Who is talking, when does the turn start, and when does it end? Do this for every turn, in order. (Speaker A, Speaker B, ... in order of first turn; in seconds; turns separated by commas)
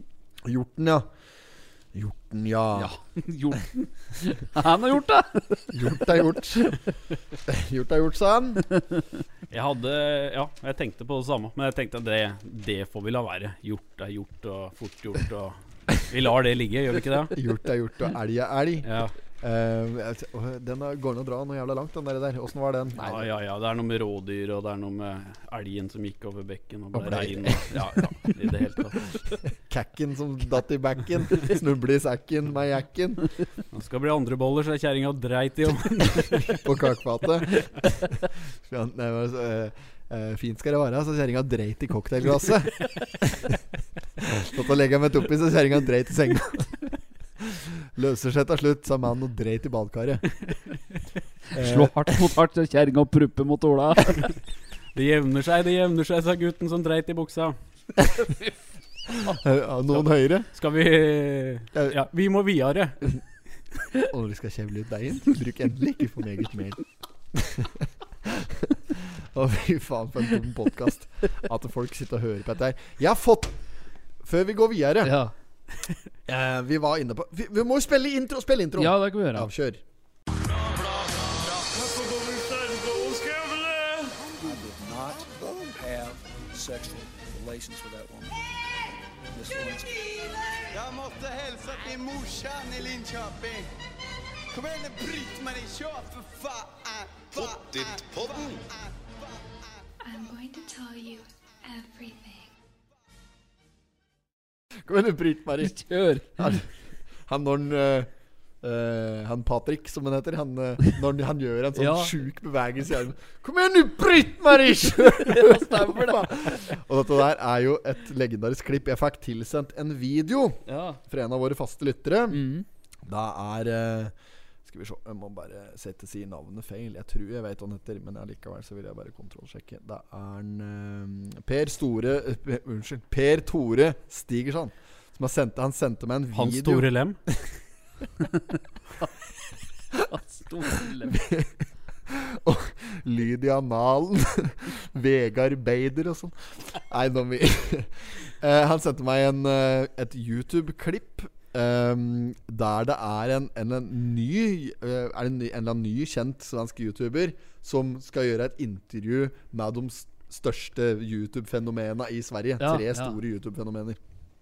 Speaker A: 0.4-1.1, Speaker A: 1.9-2.9, Speaker B: 2.7-6.0, Speaker A: 5.7-6.8, Speaker A: 7.5-8.7, Speaker C: 9.5-17.3, Speaker A: 17.3-23.3, Speaker C: 18.8-19.1, Speaker C: 23.0-29.1, Speaker A: 26.9-28.3, Speaker A: 29.6-33.3, Speaker C: 33.7-36.6, Speaker A: 36.3-43.6, Speaker A: 44.2-46.8, Speaker A: 47.4-50.3, Speaker A: 51.5-52.3, Speaker B: 51.5-54.3, Speaker C: 54.9-57.5, Speaker B: 58.2-58.5, Speaker A: 59.1-60.5, Speaker C: 60.0-63.1, Speaker A: 64.0-66.8, Speaker A: 67.3-73.5, Speaker A: 74.2-75.2, Speaker B: 75.0-75.3, Speaker A: 76.3-79.8, Speaker B: 78.8-79.5, Speaker D: 80.4-88.4, Speaker D: 89.3-90.7, Speaker E: 90.7-93.7, Speaker E: 94.5-99.6, Speaker F: 100.0-102.5, Speaker A: 104.8-105.8, Speaker B: 105.6-106.6, Speaker A: 106.3-106.7, Speaker A: 107.3-108.1, Speaker A: 108.6-122.5, Speaker B: 111.7-112.1, Speaker B: 115.0-116.6, Speaker B: 120.7-121.0, Speaker B: 122.3-122.6, Speaker A: 123.0-124.1, Speaker A: 124.6-137.4, Speaker C: 136.3-137.2, Speaker B: 140.0-141.2, Speaker A: 141.1-141.5, Speaker A: 142.1-164.0, Speaker B: 162.6-163.2